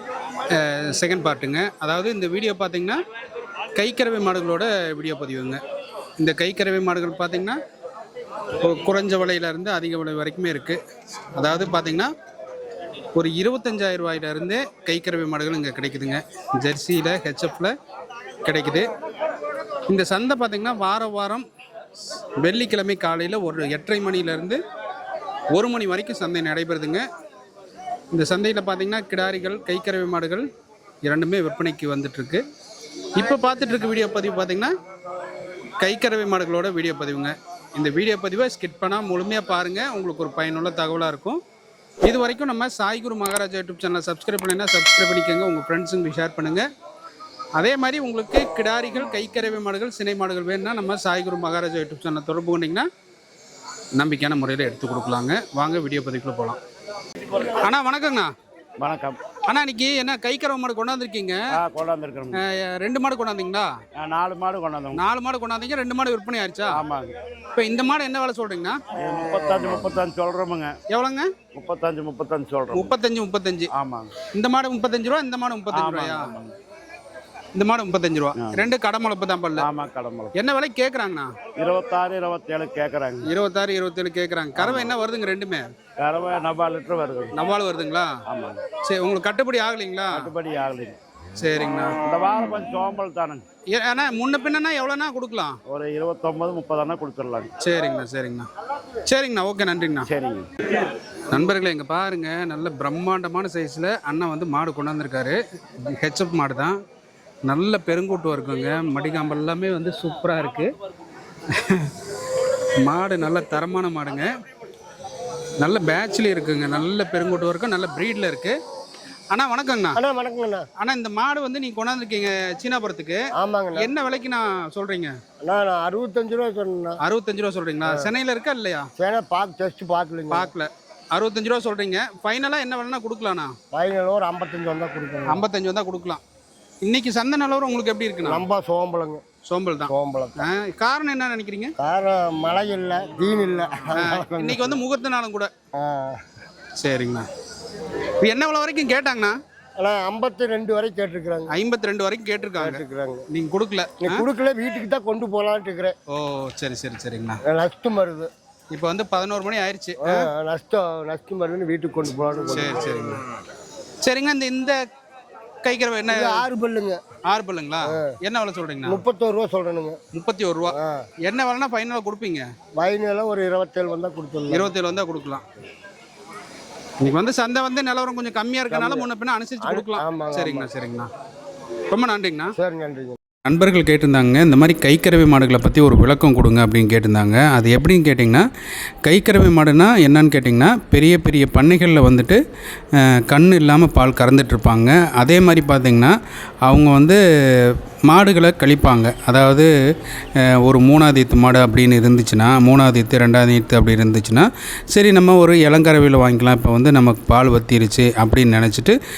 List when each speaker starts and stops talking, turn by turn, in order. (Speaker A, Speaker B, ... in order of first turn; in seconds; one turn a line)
Speaker A: 0.5-3.0
Speaker A: 3.7-5.6
Speaker A: 6.2-7.6
Speaker A: 8.6-10.8
Speaker A: 11.3-12.1
Speaker A: 13.1-17.7
Speaker A: 18.4-18.9
Speaker A: 19.9-21.5
Speaker A: 22.4-24.6
Speaker A: 25.5-27.1
Speaker A: 28.1-30.5
Speaker A: 31.0-32.4
Speaker A: 33.1-34.7
Speaker A: 35.8-41.4
Speaker A: 42.0-46.7
Speaker A: 47.6-52.9
Speaker A: 54.0-56.6
Speaker A: 57.3-58.3
Speaker B: 58.8-59.2
Speaker A: 59.5-61.4
Speaker B: 61.6-62.4
Speaker A: 62.3-63.7
Speaker B: 64.0-65.0
Speaker A: 64.9-66.8
Speaker B: 66.7-67.2
Speaker A: 67.5-68.8
Speaker B: 69.0-70.8
Speaker A: 70.9-71.3
Speaker B: 71.5-73.0
Speaker A: 72.7-73.7
Speaker B: 73.8-74.1
Speaker A: 74.3-76.4
Speaker B: 75.7-76.5
Speaker A: 77.5-79.7
Speaker B: 78.4-78.7
Speaker B: 79.6-80.3
Speaker A: 80.3-81.3
Speaker B: 81.6-83.3
Speaker A: 83.2-85.7
Speaker B: 84.6-84.9
Speaker B: 86.0-87.3
Speaker A: 87.3-88.1
Speaker B: 88.3-88.6
Speaker A: 88.8-90.3
Speaker B: 90.1-91.0
Speaker A: 91.4-92.0
Speaker B: 92.0-93.4
Speaker A: 93.7-95.6
Speaker B: 95.7-97.5
Speaker A: 97.6-98.5
Speaker A: 99.0-100.1
Speaker B: 100.1-100.5
Speaker A: 101.3-106.8
Speaker A: 107.5-110.7
Speaker A: 111.5-112.0
Speaker A: 112.8-114.3
Speaker A: 115.6-118.6
Speaker A: 119.3-120.0
Speaker C: 120.0-120.7
Speaker A: 120.8-123.2
Speaker C: 123.4-123.9
Speaker A: 123.8-125.1
Speaker C: 125.4-127.0
Speaker A: 127.0-128.9
Speaker C: 127.9-128.1
Speaker C: 129.0-130.5
Speaker A: 130.3-133.5
Speaker C: 133.7-135.5
Speaker A: 135.3-136.2
Speaker A: 136.8-138.4
Speaker C: 138.2-139.2
Speaker A: 139.4-141.8
Speaker C: 139.9-140.5
Speaker C: 141.8-144.8
Speaker A: 144.0-145.5
Speaker C: 145.8-146.2
Speaker A: 146.8-147.3
Speaker A: 148.2-149.4
Speaker C: 149.8-151.5
Speaker A: 151.5-154.2
Speaker C: 152.6-153.2
Speaker C: 154.0-155.9
Speaker A: 156.1-157.4
Speaker C: 157.5-158.3
Speaker A: 158.7-160.3
Speaker C: 160.0-163.0
Speaker A: 162.5-163.2
Speaker A: 164.0-164.8
Speaker A: 165.6-166.4
Speaker C: 166.1-167.0
Speaker A: 167.3-169.0
Speaker C: 168.9-170.0
Speaker A: 170.1-172.5
Speaker C: 170.7-171.1
Speaker C: 172.8-174.8
Speaker A: 174.5-175.4
Speaker A: 177.0-181.1
Speaker C: 178.7-179.1
Speaker C: 179.6-180.7
Speaker A: 181.9-182.6
Speaker C: 182.6-183.2
Speaker A: 183.5-188.4
Speaker A: 189.1-192.4
Speaker A: 193.0-199.7
Speaker A: 200.4-209.0